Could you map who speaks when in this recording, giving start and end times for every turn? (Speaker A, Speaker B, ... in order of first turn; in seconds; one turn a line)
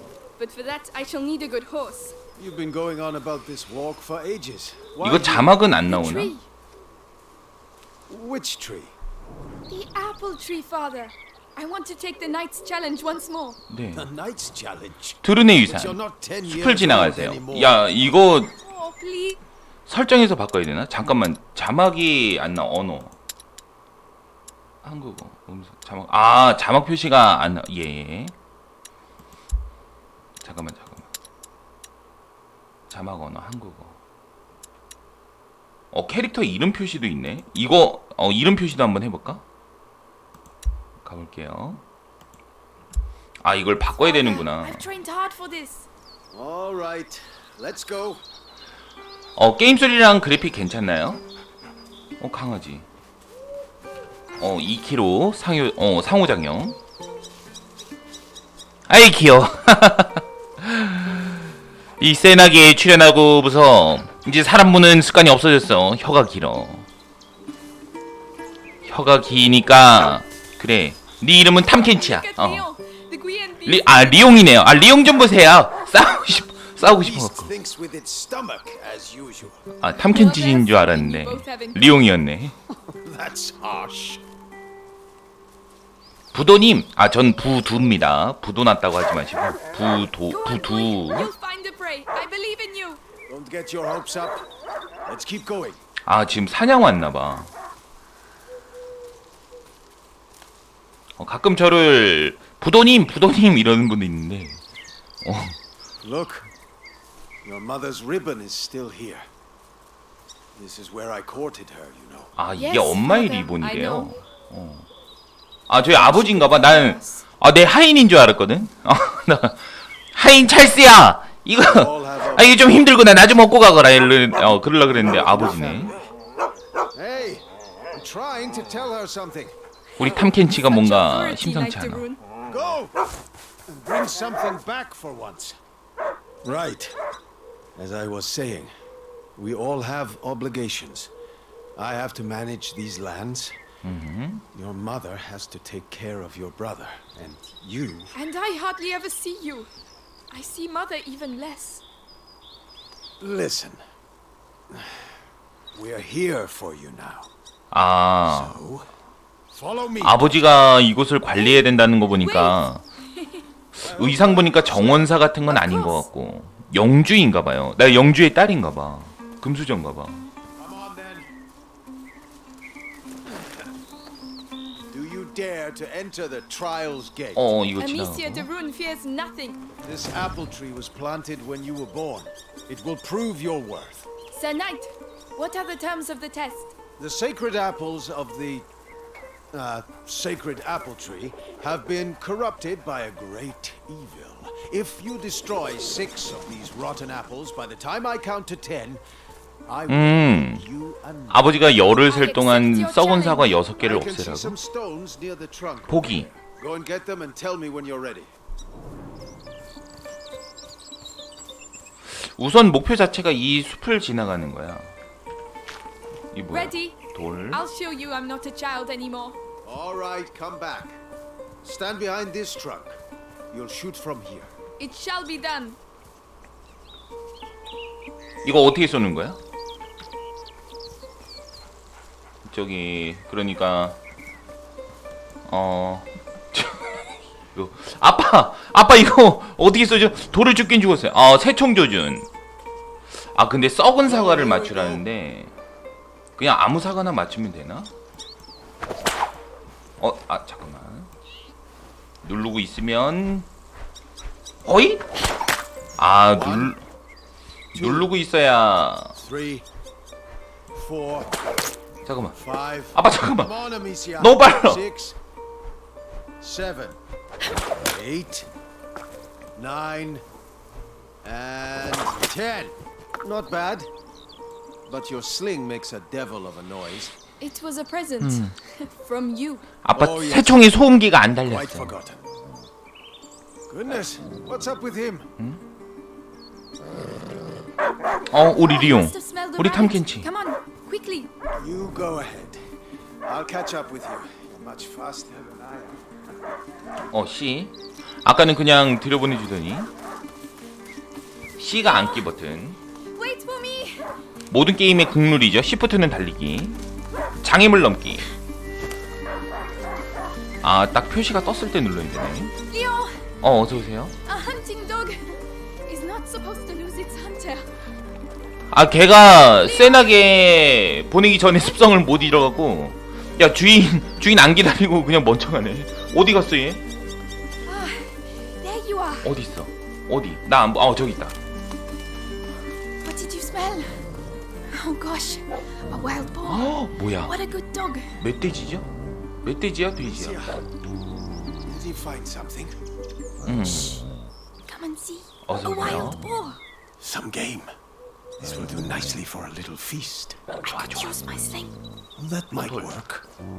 Speaker A: 0.4-2.1
Speaker B: 2.4-5.5
Speaker C: 5.0-6.3
Speaker A: 5.8-6.5
Speaker B: 8.1-8.9
Speaker A: 9.7-13.6
Speaker C: 13.7-14.1
Speaker B: 13.9-18.1
Speaker C: 15.2-18.5
Speaker A: 18.5-19.4
Speaker C: 19.9-23.1
Speaker C: 24.8-28.3
Speaker C: 30.4-31.1
Speaker C: 32.9-33.9
Speaker C: 35.9-39.4
Speaker C: 41.0-41.8
Speaker C: 43.4-44.8
Speaker A: 44.0-45.9
Speaker B: 46.3-48.2
Speaker C: 49.4-51.2
Speaker C: 52.2-52.9
Speaker C: 54.4-56.8
Speaker C: 58.9-61.4
Speaker C: 62.0-66.8
Speaker C: 68.8-72.7
Speaker A: 71.6-74.3
Speaker C: 73.7-77.5
Speaker B: 76.8-79.6
Speaker C: 79.8-82.5
Speaker A: 79.9-82.1
Speaker B: 82.7-84.2
Speaker C: 86.3-91.3
Speaker A: 90.3-93.0
Speaker B: 93.3-94.5
Speaker B: 95.0-95.8
Speaker C: 96.0-97.5
Speaker C: 101.2-104.6
Speaker C: 105.2-105.6
Speaker B: 106.0-106.5
Speaker B: 107.4-109.3
Speaker B: 110.5-112.3
Speaker C: 112.4-114.9
Speaker A: 112.5-114.2
Speaker C: 115.7-125.9
Speaker A: 115.9-117.2
Speaker B: 121.6-122.8
Speaker B: 124.9-126.1
Speaker B: 126.9-129.5
Speaker A: 130.0-132.2
Speaker C: 130.0-132.1
Speaker B: 132.5-133.0
Speaker B: 133.7-135.6
Speaker B: 136.4-136.9
Speaker B: 137.8-138.7
Speaker B: 139.3-141.1
Speaker B: 141.8-143.6
Speaker C: 143.8-144.4
Speaker B: 144.5-148.1
Speaker A: 148.1-149.7
Speaker A: 150.3-151.8
Speaker B: 153.2-153.8
Speaker B: 154.7-155.1
Speaker B: 155.7-157.3
Speaker C: 157.7-158.6
Speaker B: 158.2-158.9
Speaker B: 159.5-160.4
Speaker C: 160.0-162.8
Speaker A: 161.4-163.4
Speaker C: 163.8-170.2
Speaker B: 163.8-165.3
Speaker A: 165.4-166.1
Speaker B: 170.6-171.3
Speaker B: 174.9-177.5
Speaker C: 177.3-178.5
Speaker A: 177.8-179.6
Speaker B: 179.8-184.1
Speaker A: 184.3-186.7
Speaker B: 187.0-188.7
Speaker B: 189.5-199.0
Speaker B: 199.7-201.6
Speaker C: 199.9-200.6
Speaker C: 201.3-204.5
Speaker A: 201.9-203.7
Speaker B: 203.8-208.3
Speaker C: 205.9-206.3
Speaker C: 212.1-214.9
Speaker C: 216.3-217.6
Speaker A: 216.5-219.4
Speaker B: 219.6-221.0
Speaker B: 221.6-223.0
Speaker B: 223.5-224.5
Speaker A: 224.8-225.8
Speaker C: 228.4-229.4
Speaker C: 232.4-234.0
Speaker C: 235.5-237.0
Speaker C: 237.5-242.3
Speaker C: 243.3-245.5
Speaker B: 244.0-245.0
Speaker C: 246.4-247.9
Speaker C: 250.0-251.1
Speaker C: 252.2-253.4
Speaker C: 254.6-255.1
Speaker C: 256.0-256.8
Speaker B: 256.3-256.8
Speaker B: 257.7-258.1
Speaker C: 257.7-259.1
Speaker B: 259.1-259.6
Speaker B: 260.7-261.4
Speaker C: 262.0-262.4
Speaker B: 262.3-265.1
Speaker C: 262.9-263.5
Speaker C: 264.2-264.8
Speaker B: 266.4-267.0
Speaker B: 267.6-268.5
Speaker B: 269.6-270.2
Speaker B: 271.2-273.9
Speaker B: 274.9-277.1
Speaker A: 277.4-279.7
Speaker C: 278.2-278.5
Speaker C: 279.8-281.9
Speaker B: 279.9-280.8
Speaker B: 281.4-282.2
Speaker B: 283.7-285.3
Speaker C: 288.3-290.3
Speaker A: 288.5-291.3
Speaker B: 291.5-292.7
Speaker B: 293.2-296.0
Speaker C: 297.1-299.9
Speaker C: 301.6-302.8
Speaker A: 301.9-302.2
Speaker A: 303.1-304.1
Speaker C: 304.5-306.8
Speaker C: 307.4-308.2
Speaker C: 310.6-312.5
Speaker A: 312.7-313.3
Speaker C: 313.4-314.1
Speaker A: 314.2-317.7
Speaker C: 318.7-326.8
Speaker A: 319.6-320.2
Speaker A: 327.6-329.3
Speaker C: 329.2-331.4
Speaker A: 333.0-334.1
Speaker A: 334.7-338.2
Speaker C: 336.4-337.4
Speaker C: 338.2-338.9
Speaker C: 339.4-340.4
Speaker B: 340.0-340.7
Speaker B: 341.6-342.8
Speaker C: 343.4-344.3
Speaker A: 344.7-346.6
Speaker C: 345.4-346.2
Speaker B: 347.0-347.7
Speaker B: 348.4-350.8
Speaker A: 350.7-351.7
Speaker B: 352.1-353.2
Speaker C: 352.6-352.9